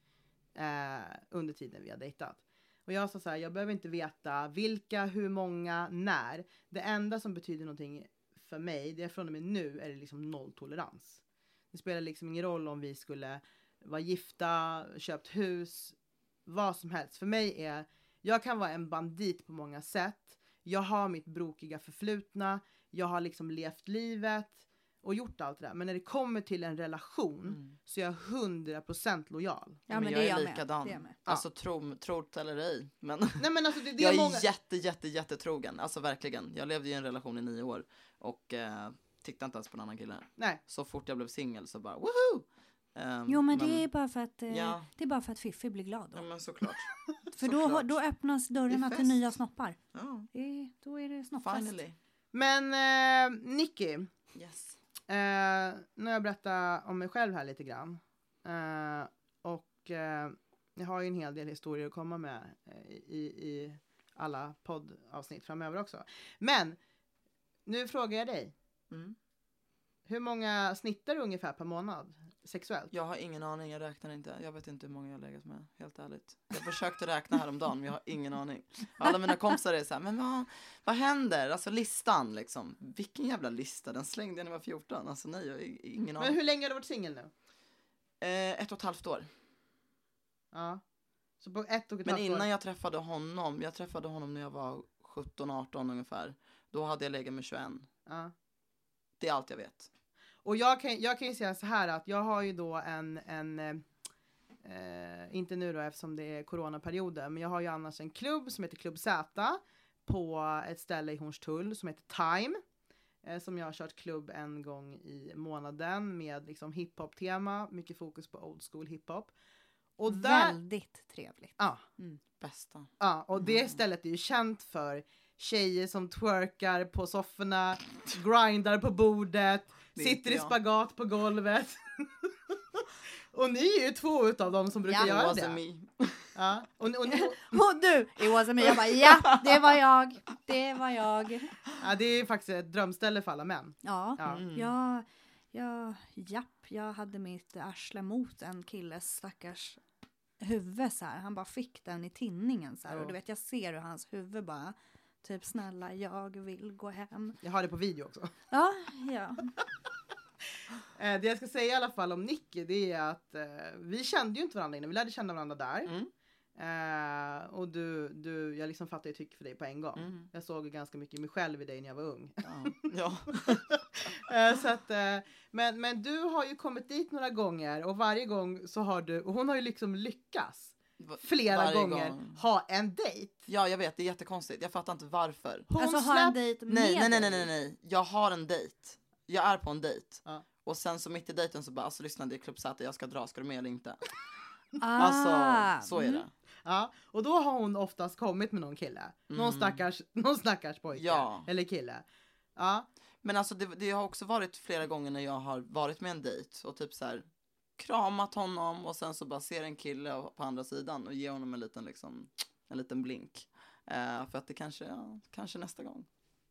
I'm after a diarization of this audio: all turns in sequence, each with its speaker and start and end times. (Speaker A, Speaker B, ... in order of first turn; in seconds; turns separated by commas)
Speaker A: 0.6-11.2, Speaker A: 11.7-29.8, Speaker B: 27.5-27.8, Speaker C: 29.9-31.1, Speaker B: 29.9-43.9, Speaker A: 33.4-34.5, Speaker C: 43.3-46.2, Speaker B: 44.5-44.9, Speaker B: 46.1-48.0, Speaker C: 47.4-51.7, Speaker B: 48.7-49.2, Speaker B: 49.9-50.3, Speaker B: 51.4-52.0, Speaker A: 52.3-54.1, Speaker B: 54.4-54.8, Speaker A: 55.1-66.8, Speaker A: 67.7-68.5, Speaker B: 68.9-69.2, Speaker A: 70.1-72.9, Speaker B: 72.9-86.4, Speaker A: 86.2-87.3, Speaker B: 88.2-89.3, Speaker A: 90.5-90.8, Speaker A: 91.4-92.5, Speaker B: 92.0-97.9, Speaker A: 98.1-98.3, Speaker B: 99.2-99.9, Speaker A: 100.4-103.9, Speaker A: 104.6-112.6, Speaker A: 113.2-119.3, Speaker A: 120.0-120.6, Speaker C: 120.1-122.2, Speaker B: 122.4-122.9, Speaker A: 123.0-135.6, Speaker B: 129.9-130.6, Speaker C: 134.9-135.2, Speaker B: 135.0-136.3, Speaker A: 136.3-137.6, Speaker C: 137.1-141.5, Speaker B: 138.9-139.8, Speaker A: 141.8-144.4, Speaker C: 143.8-149.8, Speaker B: 144.3-144.7, Speaker C: 150.4-157.4, Speaker A: 152.9-153.1, Speaker A: 157.4-158.3, Speaker C: 158.5-159.5, Speaker A: 160.9-165.9, Speaker A: 166.6-172.9, Speaker B: 170.0-170.3, Speaker B: 172.4-173.8, Speaker A: 173.4-183.4, Speaker B: 181.0-182.4, Speaker B: 183.5-185.7, Speaker A: 185.7-186.4, Speaker C: 185.8-187.4, Speaker B: 186.7-194.0, Speaker C: 194.8-196.2, Speaker B: 195.0-196.3, Speaker A: 196.7-202.1, Speaker B: 199.3-199.8, Speaker B: 200.9-201.5, Speaker A: 202.6-202.9, Speaker B: 203.2-207.2, Speaker B: 207.8-216.1